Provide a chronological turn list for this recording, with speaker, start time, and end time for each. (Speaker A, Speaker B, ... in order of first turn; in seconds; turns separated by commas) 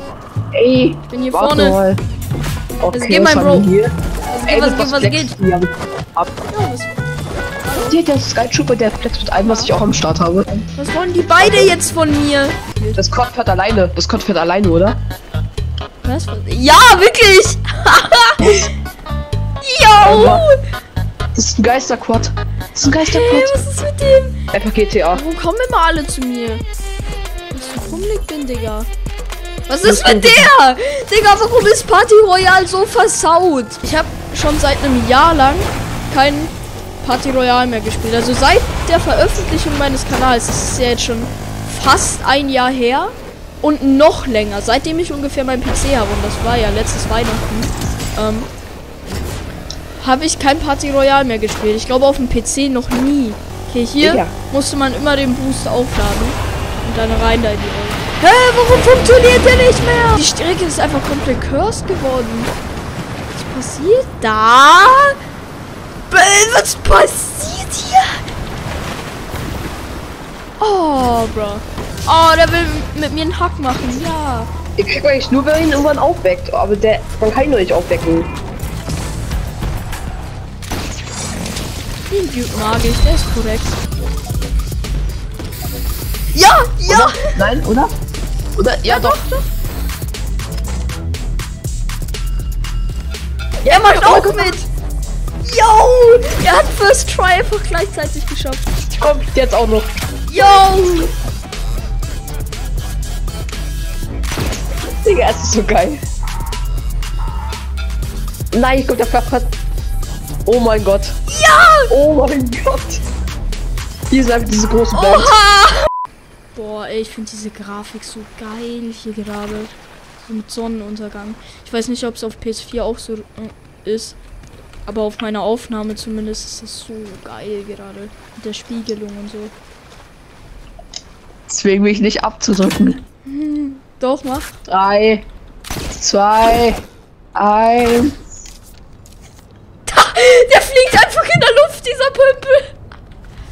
Speaker A: 0.5-2.0, Speaker B: 1.1-1.8, Speaker A: 2.8-3.9, Speaker B: 2.9-3.7, Speaker B: 4.3-5.3, Speaker A: 4.5-6.3, Speaker B: 6.5-7.0, Speaker B: 7.6-8.0, Speaker A: 7.9-10.7, Speaker B: 9.4-9.7, Speaker B: 10.8-13.0, Speaker A: 11.4-11.8, Speaker A: 13.0-15.0, Speaker B: 16.0-18.6, Speaker A: 18.4-18.7, Speaker B: 19.6-20.6, Speaker A: 20.0-20.5, Speaker A: 21.3-23.5, Speaker B: 22.9-24.4, Speaker A: 24.5-25.2, Speaker B: 25.1-26.6, Speaker B: 27.5-28.9, Speaker B: 29.7-48.5, Speaker A: 29.8-30.5, Speaker B: 50.0-62.5, Speaker A: 54.0-54.3, Speaker B: 63.3-65.2, Speaker B: 66.1-68.2, Speaker B: 70.6-74.5, Speaker A: 74.8-78.3, Speaker B: 82.1-83.8, Speaker B: 86.3-87.5, Speaker A: 86.9-87.9, Speaker A: 88.6-89.2, Speaker B: 88.8-89.5, Speaker A: 93.6-94.6, Speaker B: 93.7-94.7, Speaker B: 95.4-98.7, Speaker A: 98.9-99.9, Speaker B: 100.3-101.1, Speaker A: 105.0-106.0, Speaker A: 108.5-109.5, Speaker A: 110.5-111.2, Speaker B: 111.3-111.9, Speaker A: 111.9-113.0, Speaker A: 114.1-115.3, Speaker B: 114.9-115.8, Speaker B: 116.5-124.2, Speaker B: 124.8-129.5, Speaker A: 131.5-133.0, Speaker B: 133.2-134.6, Speaker A: 134.7-135.2, Speaker A: 135.9-136.8, Speaker A: 137.3-138.2, Speaker B: 139.8-142.7